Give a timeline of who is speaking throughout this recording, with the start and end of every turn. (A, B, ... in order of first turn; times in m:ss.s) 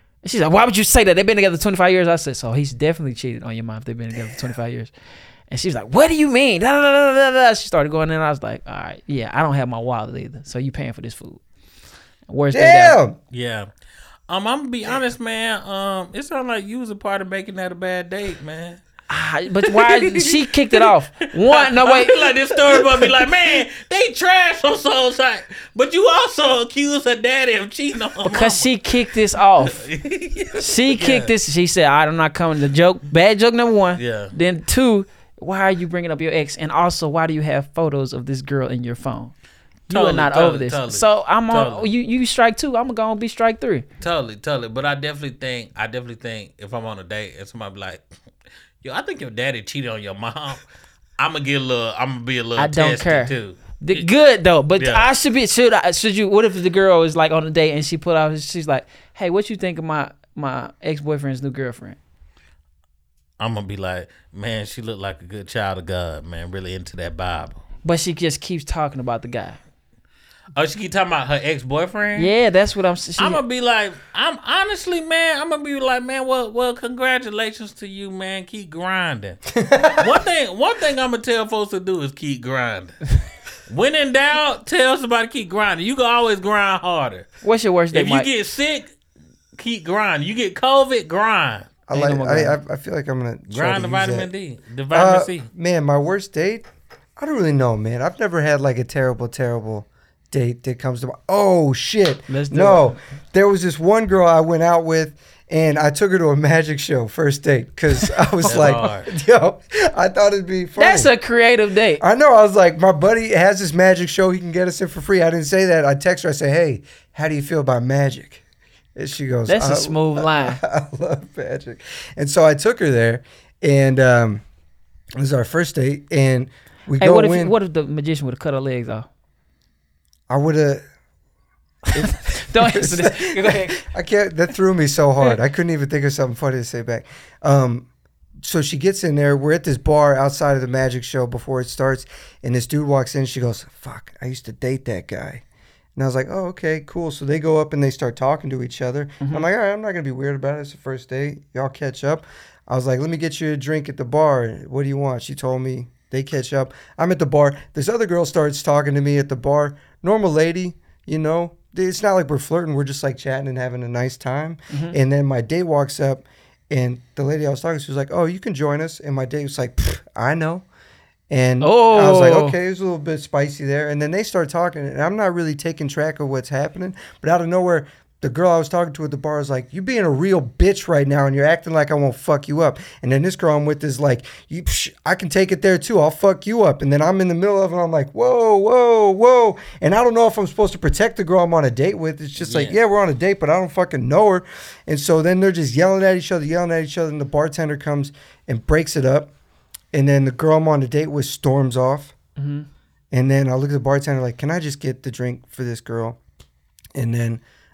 0:00.2-0:04.9 A
0:05.5-0:11.4 A
0:12.3-0:13.0 A
0:12.5-0:13.2 B
0:13.3-0:13.7 C
0:14.3-0:18.8 C
0:19.1-0:22.4 A
0:19.6-0:20.9 C
0:21.4-0:28.7 C
0:28.2-0:29.8 A
0:29.6-0:31.3 C
0:30.6-0:39.3 A
0:34.0-0:34.3 C
0:39.9-0:41.9 C
0:39.9-0:43.8 A
0:44.0-0:48.0 C
0:48.8-0:50.6 C
0:51.2-0:54.1 C
0:52.6-1:02.0 A
0:54.8-0:55.1 C
1:03.4-1:07.6 C
1:07.8-1:09.6 A
1:10.5-1:12.3 C
1:12.2-1:13.4 A
1:13.2-1:23.0 C
1:19.6-1:20.1 B
1:23.7-1:27.3 C
1:27.4-1:28.3 A
1:27.9-1:28.9 C
1:29.5-1:31.7 C
1:31.9-1:34.3 B
1:31.9-1:32.6 A
1:33.5-1:35.5 C
1:34.9-1:36.6 B
1:37.2-1:51.1 B
1:42.3-1:42.9 A
1:48.3-1:48.8 A
1:48.4-1:49.1 C
1:50.8-1:52.0 A
1:52.0-1:58.4 B
1:59.0-2:04.4 B
1:59.5-2:00.6 A
2:05.2-2:07.5 B
2:07.0-2:09.1 A
2:10.3-2:10.8 B
2:11.9-2:13.8 A
2:11.9-2:17.9 B
2:18.4-2:25.4 B
2:26.0-2:50.6 B
2:29.2-2:29.5 A
2:44.7-2:45.0 A
2:51.3-3:19.3 B
2:51.6-2:52.6 A
3:12.4-3:12.8 C
3:19.9-3:22.1 B
3:22.4-3:22.7 A
3:23.1-3:26.2 B
3:26.9-3:27.4 B